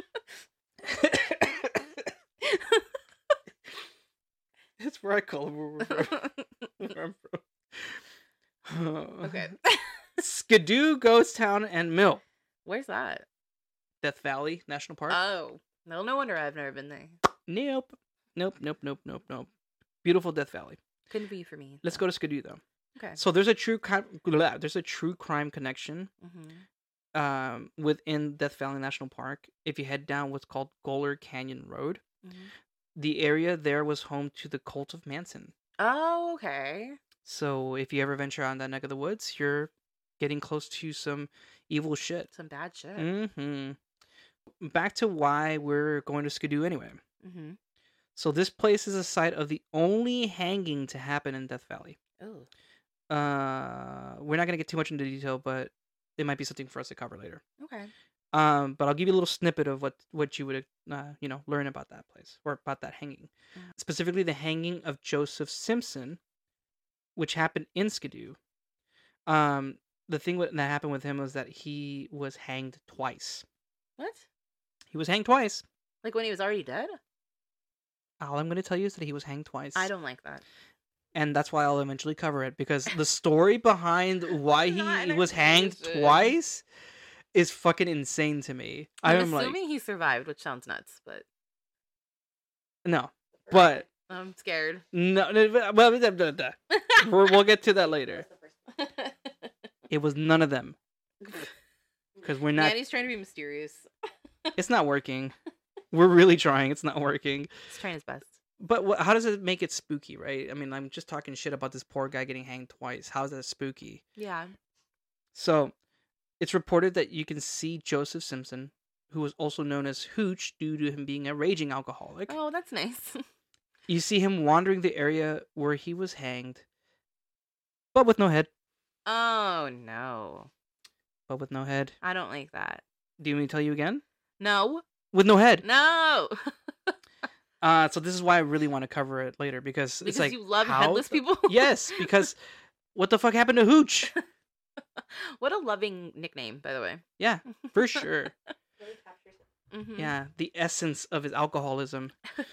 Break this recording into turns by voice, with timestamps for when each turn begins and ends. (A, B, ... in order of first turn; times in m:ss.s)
0:00.8-0:01.9 A
0:02.4-0:02.8 B
0:04.8-0:08.0 A
0:05.9-0:06.4 B
0:08.6-0:09.5 A
0:09.2-0:10.0 B
0:10.2-0:12.2 A
0:12.6-0:13.2 B
0:14.0-0:15.2 A
0:15.1-0:17.2 B
0:17.5-0:19.5 A
0:20.0-0:20.8 A
0:21.1-0:22.0 B
0:21.8-0:22.6 A
0:23.2-0:26.1 A
0:26.2-0:26.6 B
0:27.1-0:32.0 A
0:32.2-0:32.5 B
0:33.0-0:35.5 A
0:35.8-0:37.0 B
0:37.2-0:42.3 A
0:42.3-0:43.1 B
0:43.0-0:43.8 A
0:44.6-0:47.0 A
0:47.2-0:47.6 B
0:48.2-0:52.0 A
0:52.2-0:52.5 B
0:53.1-0:57.4 A
0:57.6-0:57.9 B
0:58.3-1:06.2 A
1:07.2-1:08.4 A
1:09.2-1:13.4 A
1:14.0-1:14.2 B
1:14.9-1:15.6 A
1:16.0-1:17.0 B
1:18.2-1:19.9 A
1:19.7-1:20.4 B
1:21.1-1:26.6 A
1:24.4-1:26.4 B
1:27.3-1:29.6 A
1:29.0-1:31.2 B
1:32.8-1:33.8 A
1:33.5-1:33.7 C
1:34.1-1:34.8 B
1:34.9-1:38.2 A
1:36.7-1:37.0 B
1:37.9-1:38.8 C
1:38.8-1:39.1 B
1:39.9-1:40.8 A
1:42.2-1:42.8 A
1:42.5-1:43.9 B
1:44.6-1:45.3 A
1:45.9-1:47.5 A
1:47.7-1:48.4 B
1:48.6-1:54.0 A
1:54.2-1:54.5 B
1:55.3-1:55.7 A
1:56.4-2:02.3 A
2:02.3-2:03.2 B
2:03.9-2:06.6 A
2:07.9-2:08.5 A
2:09.0-2:10.5 B
2:11.3-2:11.9 A
2:12.0-2:12.8 B
2:13.2-2:14.0 A
2:14.4-2:14.8 B
2:15.1-2:15.6 A
2:15.6-2:16.9 B
2:17.6-2:22.4 A
2:20.0-2:22.1 B
2:22.9-2:24.1 A
2:25.0-2:28.0 B
2:27.2-2:28.3 A
2:28.8-2:29.4 C
2:29.7-2:30.1 B
2:30.0-2:32.1 A